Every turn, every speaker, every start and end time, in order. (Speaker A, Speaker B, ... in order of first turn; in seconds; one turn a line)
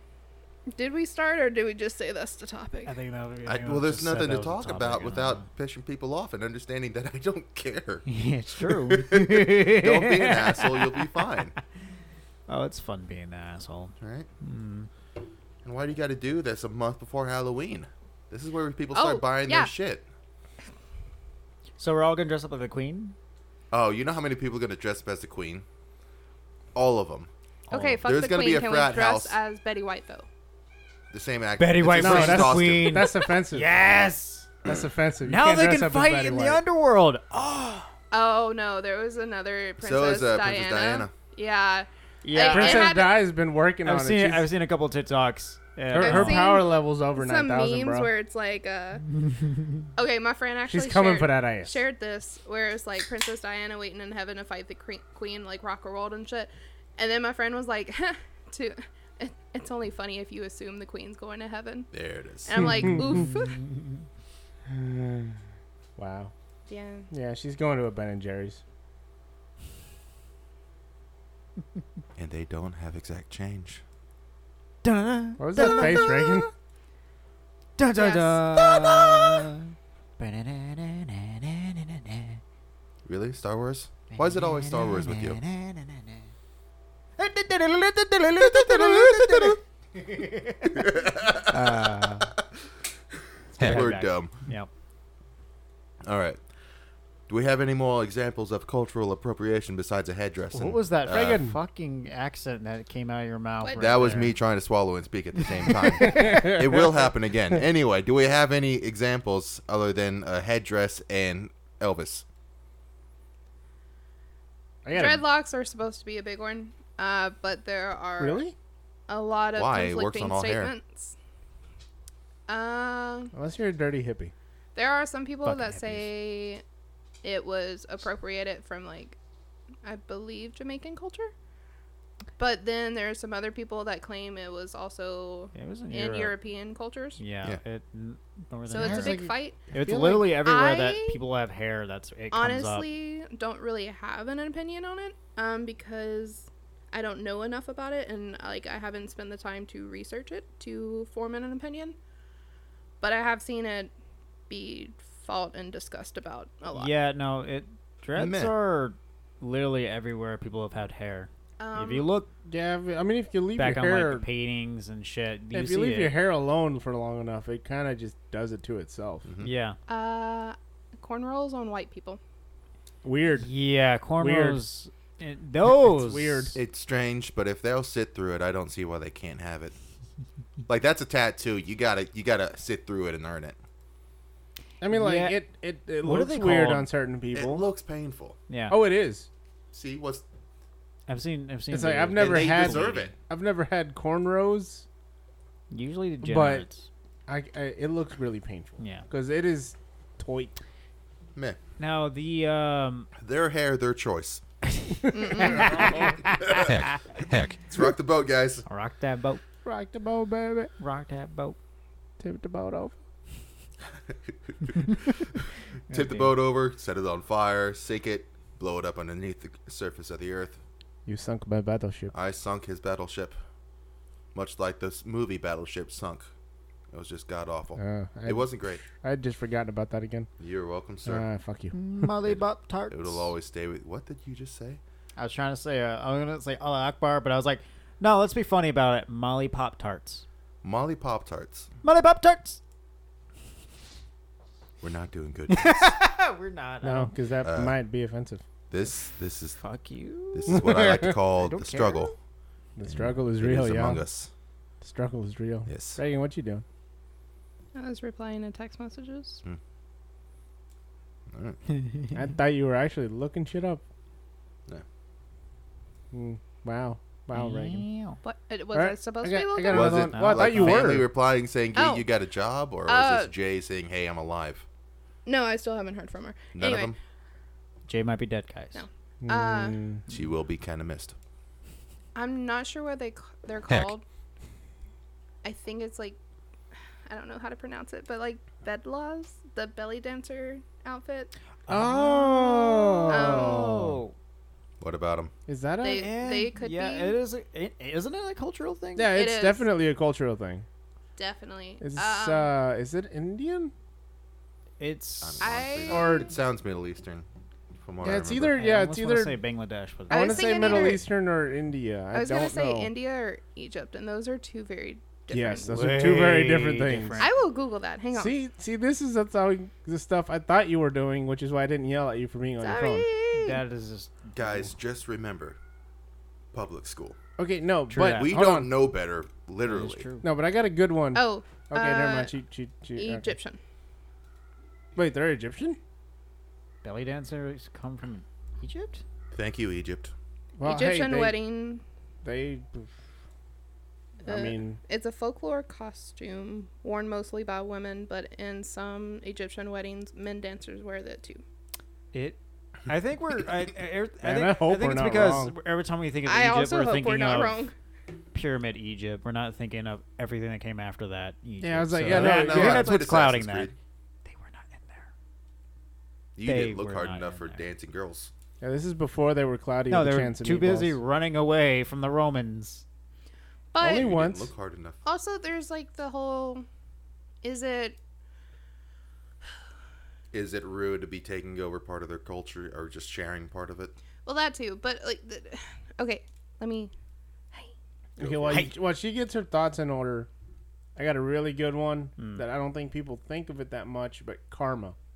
Speaker A: 0.7-2.9
Speaker B: 2.9-5.5
Speaker C: 3.5-8.1
Speaker B: 8.1-11.1
Speaker C: 8.6-11.5
Speaker B: 12.5-14.9
Speaker C: 14.0-14.3
Speaker C: 15.6-20.1
Speaker A: 18.9-19.7
Speaker B: 21.8-23.2
Speaker C: 23.7-25.6
Speaker C: 26.8-27.3
Speaker B: 27.7-28.0
Speaker A: 27.7-30.3
Speaker C: 27.9-29.4
Speaker C: 31.1-33.1
Speaker B: 31.6-34.5
Speaker D: 32.0-33.7
Speaker D: 34.6-36.6
Speaker B: 35.2-37.9
Speaker A: 38.1-43.2
Speaker C: 39.8-41.1
Speaker B: 42.2-43.0
Speaker D: 42.4-44.5
Speaker B: 43.8-46.5
Speaker D: 45.9-48.1
Speaker A: 46.0-49.1
Speaker A: 50.0-61.9
Speaker D: 50.7-51.8
Speaker C: 61.9-62.9
Speaker A: 62.4-63.6
Speaker D: 64.7-65.4
Speaker D: 66.0-66.3
Speaker A: 66.7-67.1
Speaker D: 67.1-68.6
Speaker C: 72.2-73.8
Speaker B: 74.8-76.4
Speaker D: 75.4-76.5
Speaker B: 77.8-82.4
Speaker A: 78.0-78.9
Speaker C: 83.0-85.4
Speaker B: 84.1-86.2
Speaker B: 87.2-92.3
Speaker C: 88.4-89.6
Speaker C: 90.8-91.6
Speaker C: 93.6-94.3
Speaker B: 93.6-94.7
Speaker C: 96.0-96.4
Speaker C: 97.3-101.4
Speaker B: 100.5-104.4
Speaker D: 101.1-101.5
Speaker C: 103.8-112.2
Speaker D: 106.0-106.6
Speaker D: 114.8-115.2
Speaker A: 114.9-118.4
Speaker D: 118.2-118.5
Speaker A: 119.1-121.2
Speaker C: 119.5-120.7
Speaker A: 122.5-123.3
Speaker D: 123.3-124.3
Speaker A: 124.8-126.6
Speaker B: 125.4-126.1
Speaker A: 127.2-129.2
Speaker A: 129.8-131.3
Speaker A: 132.4-137.2
Speaker B: 135.5-136.3
Speaker B: 137.2-142.9
Speaker A: 138.7-139.6
Speaker D: 138.8-140.4
Speaker A: 140.4-141.2
Speaker A: 142.3-152.0
Speaker A: 153.0-153.9
Speaker A: 154.5-156.9
Speaker B: 156.7-162.3
Speaker C: 158.2-158.5
Speaker A: 161.6-162.1
Speaker D: 162.5-164.3
Speaker B: 163.6-166.2
Speaker D: 165.5-169.3
Speaker C: 169.2-169.5
Speaker B: 169.4-169.8
Speaker A: 169.9-172.2
Speaker D: 173.0-173.5
Speaker B: 173.4-176.6
Speaker D: 174.2-174.6
Speaker D: 175.7-176.6
Speaker C: 176.5-179.7
Speaker C: 180.7-183.6
Speaker D: 184.8-187.7
Speaker B: 184.9-185.4
Speaker B: 186.0-186.9
Speaker C: 187.3-188.4
Speaker B: 188.5-188.8
Speaker D: 188.7-189.3
Speaker C: 189.7-190.2
Speaker B: 191.1-193.1
Speaker D: 191.7-194.8
Speaker C: 192.2-193.2
Speaker B: 195.7-196.9
Speaker D: 196.2-196.7
Speaker D: 197.3-200.6
Speaker B: 198.8-199.1
Speaker B: 201.8-203.1
Speaker C: 203.2-204.4
Speaker B: 204.8-207.0
Speaker A: 205.1-206.0
Speaker C: 206.0-208.7
Speaker B: 208.7-209.4
Speaker D: 209.7-210.7
Speaker B: 210.8-211.6
Speaker D: 212.2-213.0
Speaker C: 214.1-220.6
Speaker B: 215.9-216.4
Speaker D: 221.1-222.1
Speaker C: 222.1-223.4
Speaker C: 224.3-226.3
Speaker C: 226.9-228.8
Speaker D: 227.8-230.3
Speaker C: 230.4-231.2
Speaker D: 231.1-231.8
Speaker B: 231.7-233.3
Speaker C: 232.2-234.8
Speaker B: 235.2-240.2
Speaker C: 240.6-241.7
Speaker B: 241.8-242.6
Speaker C: 244.8-245.9
Speaker B: 245.5-247.1
Speaker D: 246.8-248.4
Speaker C: 247.4-247.8
Speaker C: 248.7-249.6
Speaker B: 249.6-252.2
Speaker C: 250.3-252.1
Speaker D: 250.5-251.1
Speaker D: 252.8-254.1
Speaker C: 252.9-254.3
Speaker D: 254.8-256.6
Speaker C: 255.7-256.0
Speaker A: 257.8-259.4
Speaker C: 261.3-261.6
Speaker B: 261.8-262.1
Speaker D: 262.1-263.8
Speaker D: 266.1-267.9
Speaker B: 267.3-268.2
Speaker A: 268.2-270.1
Speaker D: 268.7-271.1
Speaker C: 269.7-274.7
Speaker B: 270.1-271.0
Speaker A: 271.7-272.1
Speaker A: 272.9-273.3
Speaker A: 275.3-276.9
Speaker C: 276.5-277.0
Speaker B: 277.9-278.9
Speaker A: 278.7-279.8
Speaker D: 279.2-280.0
Speaker C: 280.1-281.1
Speaker A: 282.1-284.0
Speaker A: 285.4-286.2
Speaker A: 287.1-291.3
Speaker B: 291.7-294.1
Speaker D: 291.7-294.0
Speaker A: 293.1-293.7
Speaker C: 294.8-295.3
Speaker D: 295.5-296.1
Speaker A: 295.8-297.2
Speaker B: 295.9-299.2
Speaker D: 299.0-300.7
Speaker A: 299.1-299.7
Speaker A: 301.2-302.5
Speaker D: 301.8-303.7
Speaker B: 304.8-305.6
Speaker C: 305.2-308.6
Speaker A: 305.4-306.3
Speaker D: 305.9-306.3
Speaker D: 308.0-309.4
Speaker B: 308.6-311.0
Speaker A: 310.1-311.0
Speaker D: 310.1-312.9
Speaker A: 312.1-315.7
Speaker D: 315.3-317.3
Speaker B: 315.6-317.3
Speaker A: 317.2-318.4
Speaker D: 318.1-323.1
Speaker A: 322.6-323.6
Speaker B: 323.3-324.7
Speaker C: 324.3-325.6
Speaker C: 326.5-327.2
Speaker D: 327.4-328.7
Speaker B: 327.9-328.3
Speaker C: 327.9-330.1
Speaker B: 329.7-330.3
Speaker D: 330.2-333.3
Speaker A: 331.1-332.3
Speaker A: 333.0-333.6
Speaker D: 335.0-335.8
Speaker B: 336.8-339.0
Speaker C: 339.3-340.1
Speaker D: 340.6-341.4
Speaker A: 340.6-341.8
Speaker D: 342.2-342.9
Speaker D: 344.2-344.8
Speaker A: 344.2-351.4
Speaker B: 352.1-357.6
Speaker D: 354.2-355.6
Speaker A: 356.2-357.7
Speaker B: 358.3-363.7
Speaker D: 361.6-363.0
Speaker C: 362.0-363.8
Speaker B: 364.2-365.1
Speaker C: 366.4-368.3
Speaker B: 366.4-367.7
Speaker D: 368.6-371.0
Speaker B: 369.9-372.9
Speaker A: 373.7-374.2
Speaker D: 373.8-374.5
Speaker C: 373.8-375.0
Speaker A: 375.1-376.7
Speaker A: 377.4-378.0
Speaker C: 380.3-383.9
Speaker A: 384.2-386.9
Speaker D: 388.2-390.3
Speaker C: 388.2-388.7
Speaker D: 391.0-395.0
Speaker B: 392.2-392.4